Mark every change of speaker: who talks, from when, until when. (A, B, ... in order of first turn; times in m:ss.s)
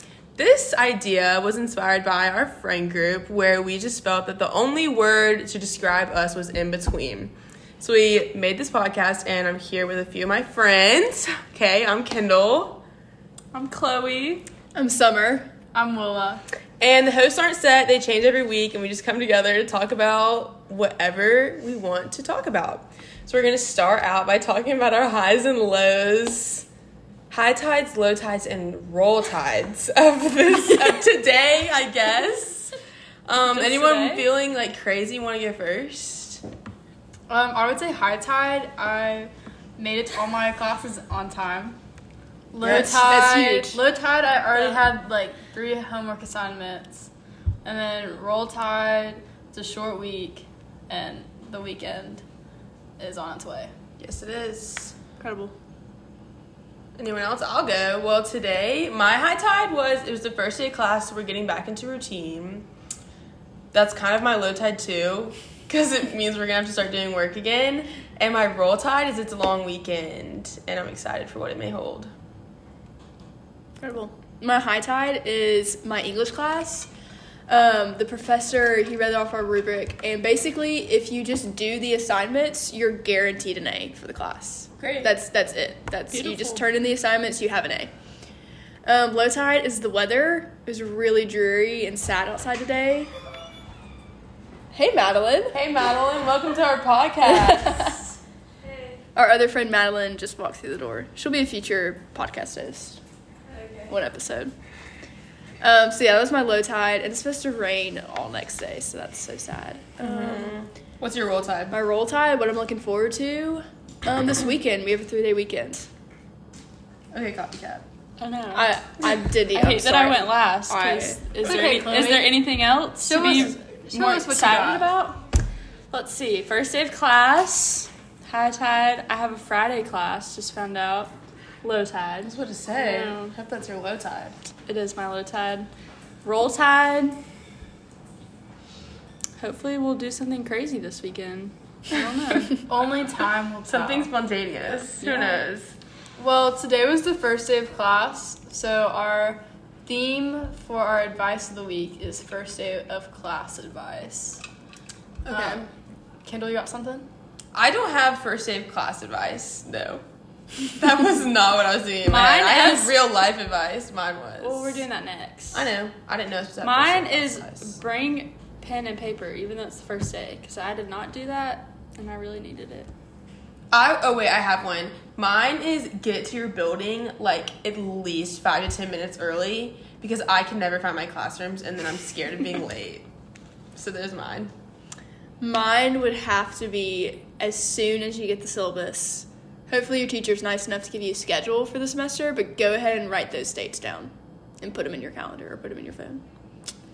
0:00.4-0:12.8 A
0:13.5-0:14.5 B
0:14.7-0:15.5 C
0:15.7-0:16.4 D
0:16.8-0:26.7 A
0:27.3-0:32.7 A
0:33.3-0:36.4 A
0:33.4-0:34.3 B
0:37.3-0:41.8 D
0:42.5-0:47.1 D
0:42.6-0:43.1 A
0:42.6-0:43.8 C
0:44.6-0:44.8 B
0:47.6-0:52.2 D
0:53.0-0:53.7 D
0:54.0-0:55.0 A
0:55.2-0:55.5 C
0:57.0-1:02.7 A
1:03.7-1:12.1 A
1:13.8-1:16.9 C
1:17.5-1:27.9 C
1:24.8-1:25.2 A
1:26.1-1:26.7 B
1:28.8-1:33.1 C
1:34.7-1:35.6 C
1:35.5-1:38.0 A
1:37.2-1:38.0 C
1:38.6-1:39.0 B
1:39.1-1:43.0 C
1:43.5-1:43.9 B
1:43.9-1:44.5 C
1:45.6-1:50.5 C
1:50.0-1:51.8 A
1:51.7-1:55.9 C
1:57.1-1:57.8 A
1:58.2-2:05.2 B
1:58.5-2:01.2 C
2:01.4-2:02.5 D
2:03.0-2:05.1 D
2:05.9-2:13.4 B
2:12.2-2:14.4 A
2:14.7-2:15.7 B
2:16.2-2:17.2 B
2:19.4-2:22.6 B
2:22.6-2:24.1 D
2:23.7-2:25.7 A
2:25.0-2:25.5 B
2:26.2-2:34.4 D
2:35.2-2:35.7 A
2:35.3-2:35.6 D
2:36.2-2:37.1 D
2:37.5-2:40.0 A
2:40.7-2:44.8 A
2:42.0-2:43.0 B
2:44.4-2:45.7 B
2:45.5-2:47.8 A
2:46.6-2:52.9 B
2:53.7-3:03.1 A
3:03.8-3:04.5 A
3:05.4-3:16.2 C